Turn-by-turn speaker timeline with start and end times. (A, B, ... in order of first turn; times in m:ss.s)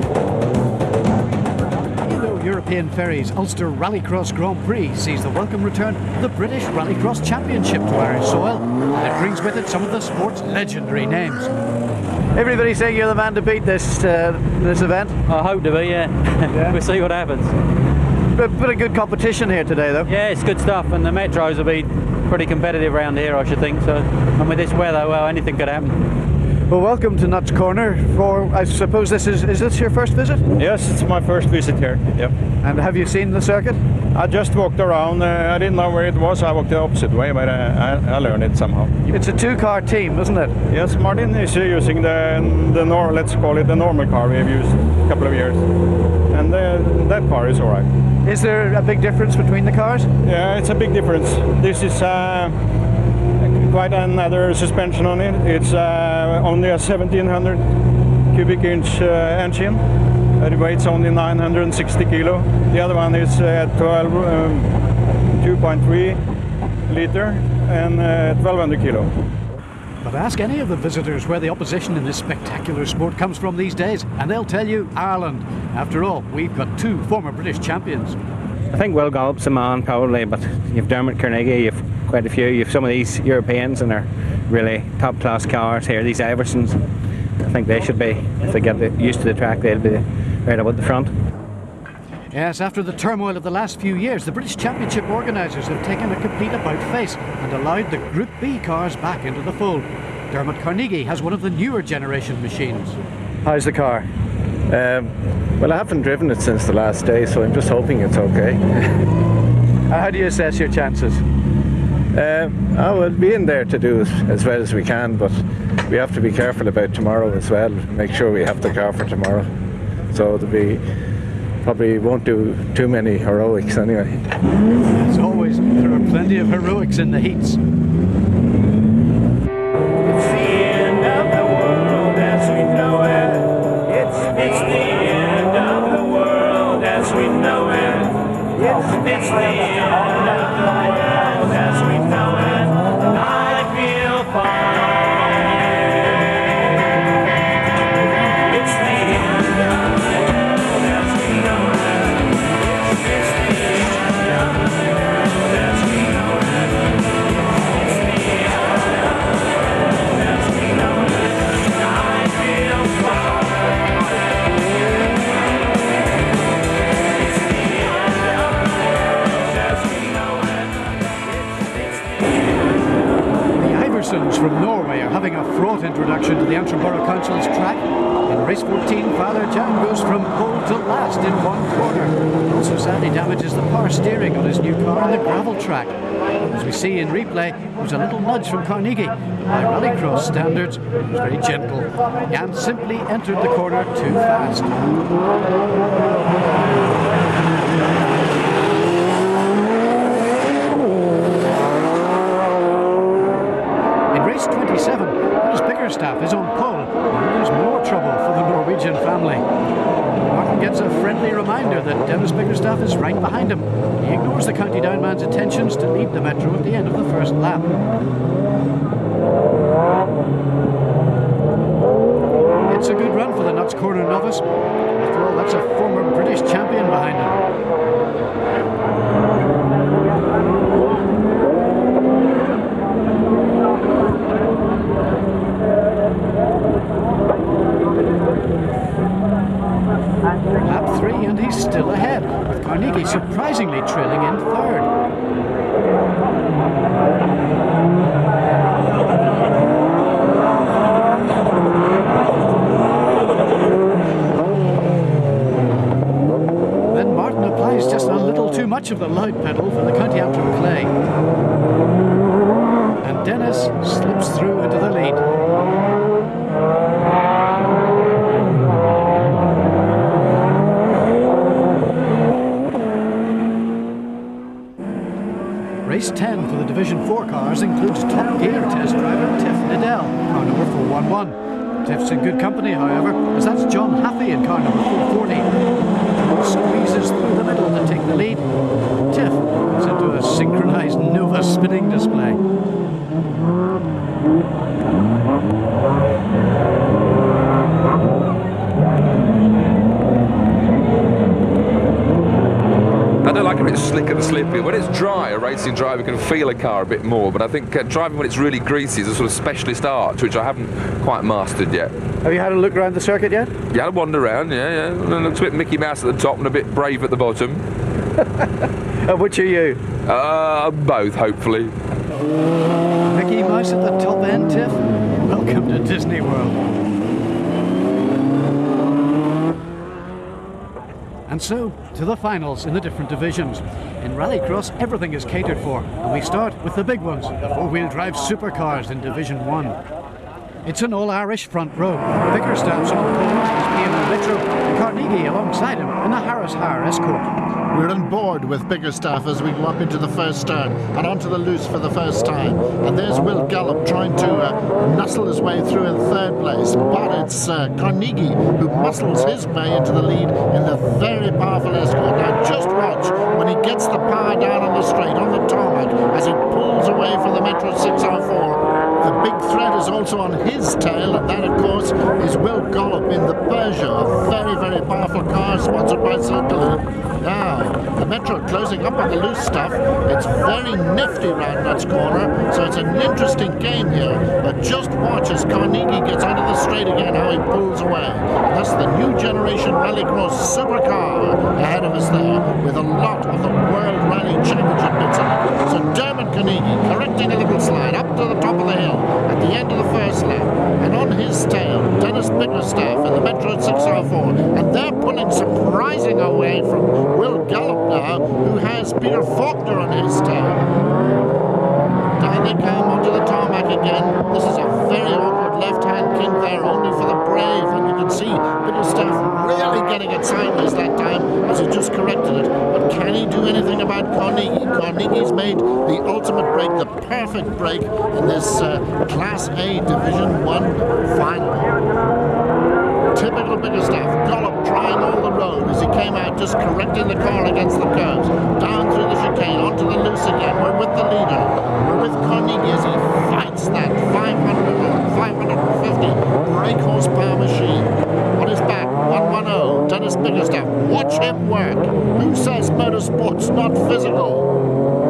0:02.0-0:11.5 A
0:12.3-0:15.2 A
0:15.3-0:17.5 B
0:18.3-0:20.1 A
0:20.1-0:25.9 B
0:26.7-0:30.4 A
0:30.6-0:32.3 C
0:32.6-0:33.8 A
0:34.1-0:38.9 C
0:39.1-0:40.6 A
0:40.7-0:45.6 C
0:46.3-0:47.9 C
0:48.2-0:50.1 A
0:50.2-0:52.6 C
0:53.4-0:57.6 C
0:58.3-0:59.8 C
1:00.4-1:04.7 C
1:05.3-1:06.2 C
1:06.9-1:09.1 C
1:10.0-1:18.2 A
1:18.7-1:26.8 D
1:27.4-1:31.1 D
1:32.3-1:44.1 A
1:44.7-1:48.9 E
1:49.9-1:51.2 A
1:52.1-1:59.5 E
2:00.1-2:00.8 E
2:01.6-2:04.2 E
2:04.9-2:07.6 A
2:10.4-2:11.3 A
2:12.5-2:13.1 A
2:14.1-2:15.8 A
2:16.4-2:18.1 A
2:19.2-2:19.7 A
2:21.7-2:22.3 A
2:51.4-2:52.1 A
2:53.5-3:06.0 A
3:06.5-3:14.7 A
3:24.1-3:29.4 A
3:30.2-3:37.7 A
3:42.7-3:44.4 A
3:45.0-3:47.4 A
4:00.6-4:04.9 A
4:16.9-4:20.9 A
4:23.0-4:25.2 A
4:35.9-4:45.5 A
4:46.1-4:48.4 A
4:49.1-4:52.4 A
5:03.2-5:11.9 F
5:12.2-5:13.5 A
5:13.7-5:17.6 F
5:19.0-5:19.8 A
5:20.1-5:21.7 F
5:23.1-5:26.6 A
5:31.3-5:39.8 A
5:40.6-5:47.3 A
5:47.7-6:50.7 G
6:52.2-7:11.8 G
7:13.1-7:34.5 G